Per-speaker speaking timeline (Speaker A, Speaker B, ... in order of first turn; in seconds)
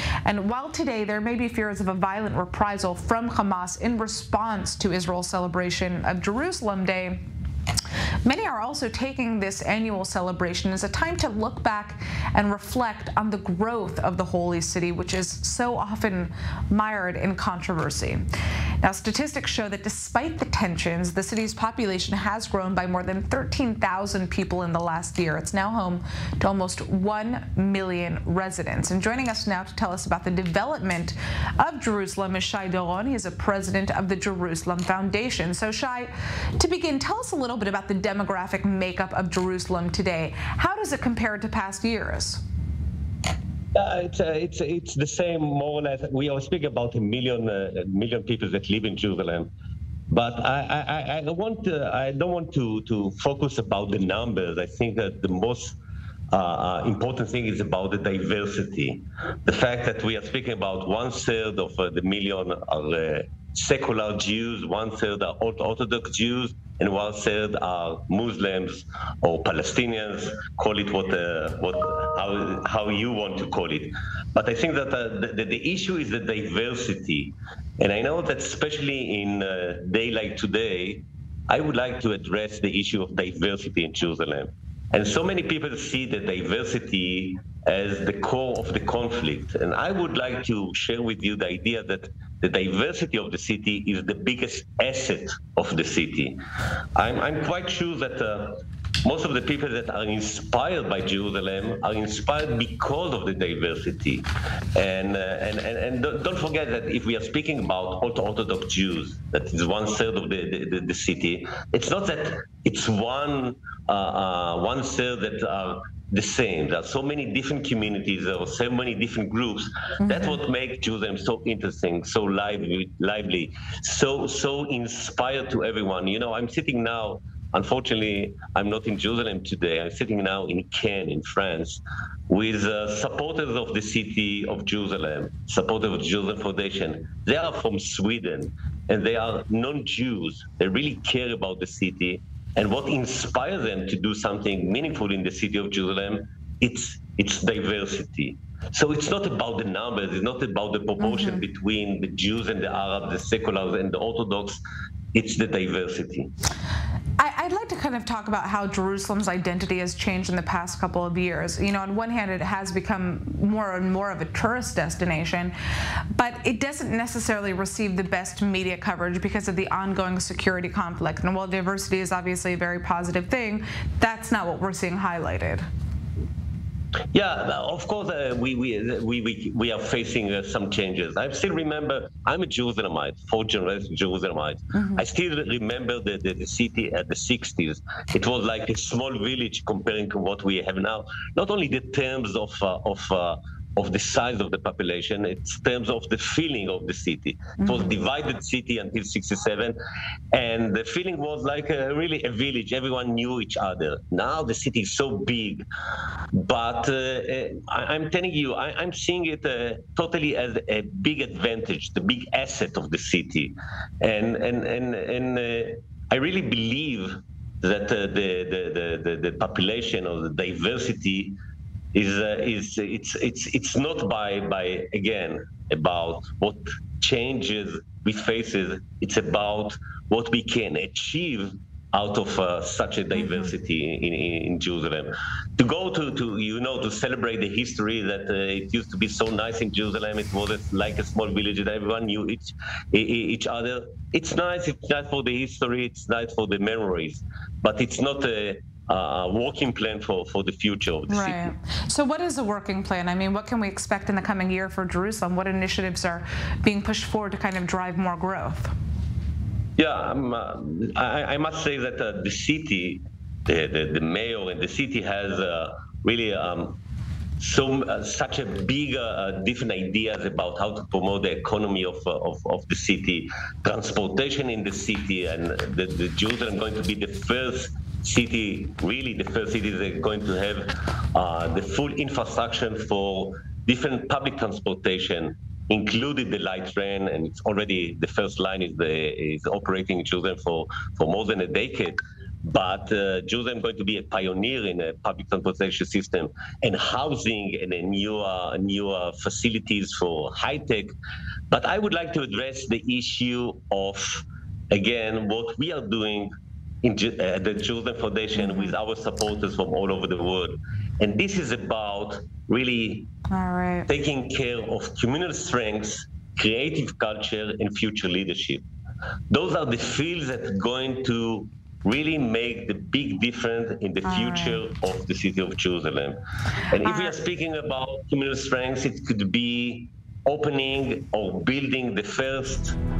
Speaker A: 0.2-7.2, 8.2-18.2, 18.8-42.4, 151.0-151.4, 157.2-165.5, 166.1-175.6, 251.1-258.7, 308.4-308.7, 313.3-313.9, 324.0-324.6, 326.8-327.1
Speaker B: 43.7-49.5, 50.1-55.8, 56.3-96.4, 96.9-154.6, 155.1-156.3, 177.1-199.8, 200.3-205.7, 206.3-221.3, 221.9-251.5, 259.8-266.8, 267.4-300.9, 301.5-306.3, 306.8-313.1, 313.9-318.6, 319.3-326.2, 326.7-332.8